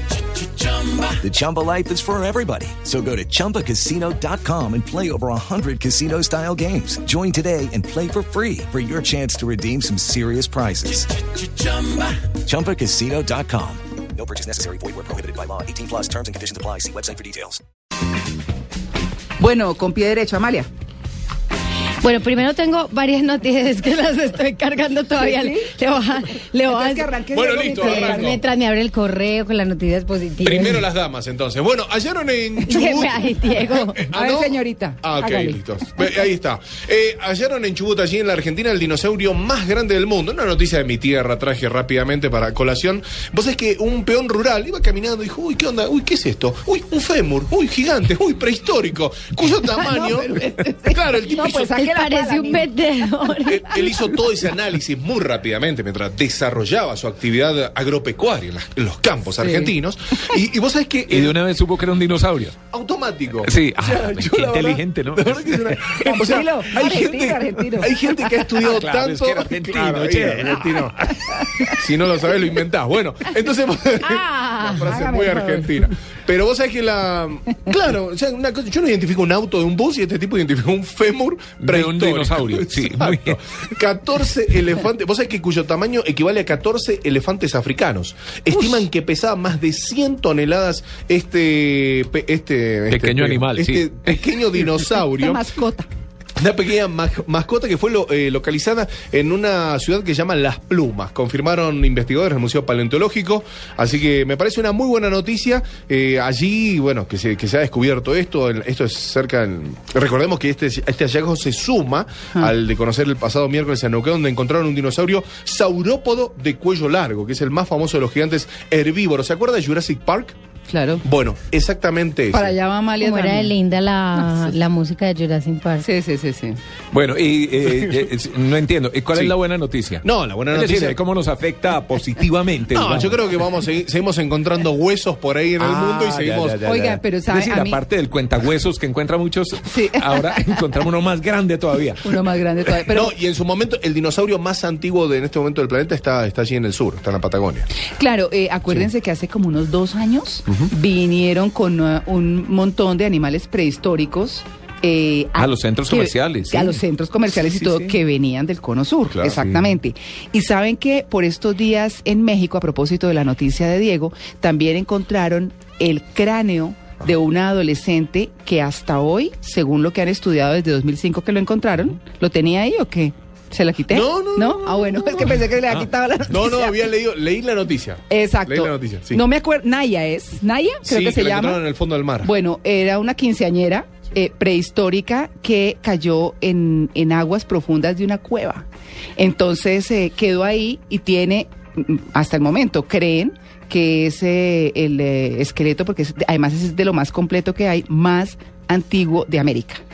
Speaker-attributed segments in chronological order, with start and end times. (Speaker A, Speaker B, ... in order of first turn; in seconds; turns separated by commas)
Speaker A: 0.6-0.9, Speaker B: 1.0-11.3, Speaker B: 12.1-17.6, Speaker C: 19.4-20.7, Speaker A: 22.0-30.8, Speaker C: 25.2-25.7, Speaker C: 26.7-28.4, Speaker D: 27.3-28.4, Speaker D: 30.4-51.8, Speaker A: 32.6-34.0, Speaker C: 34.1-35.6, Speaker C: 49.7-52.7, Speaker A: 51.6-53.8, Speaker D: 53.5-61.4, Speaker C: 59.4-59.7, Speaker E: 61.1-62.5, Speaker D: 62.7-70.9, Speaker E: 63.4-66.2, Speaker C: 66.0-68.4, Speaker E: 66.8-67.2, Speaker E: 68.6-71.7, Speaker D: 71.8-95.4, Speaker C: 74.0-75.9, Speaker E: 81.6-83.4, Speaker E: 92.9-94.2, Speaker C: 95.1-95.9, Speaker D: 96.4-120.3, Speaker C: 120.7-121.0, Speaker D: 121.0-122.5, Speaker C: 122.3-123.5, Speaker A: 123.0-125.9, Speaker C: 124.1-124.5, Speaker C: 125.8-126.6, Speaker E: 126.9-133.2, Speaker D: 130.0-131.0, Speaker D: 132.7-136.6, Speaker E: 135.6-142.8, Speaker C: 136.6-137.8, Speaker C: 139.7-140.8, Speaker C: 142.0-143.1, Speaker D: 142.9-147.7, Speaker C: 147.9-176.8, Speaker E: 155.3-156.8, Speaker E: 157.4-157.9, Speaker D: 159.1-159.4, Speaker D: 173.9-179.2, Speaker C: 178.1-181.6, Speaker D: 180.8-182.3, Speaker C: 182.2-199.8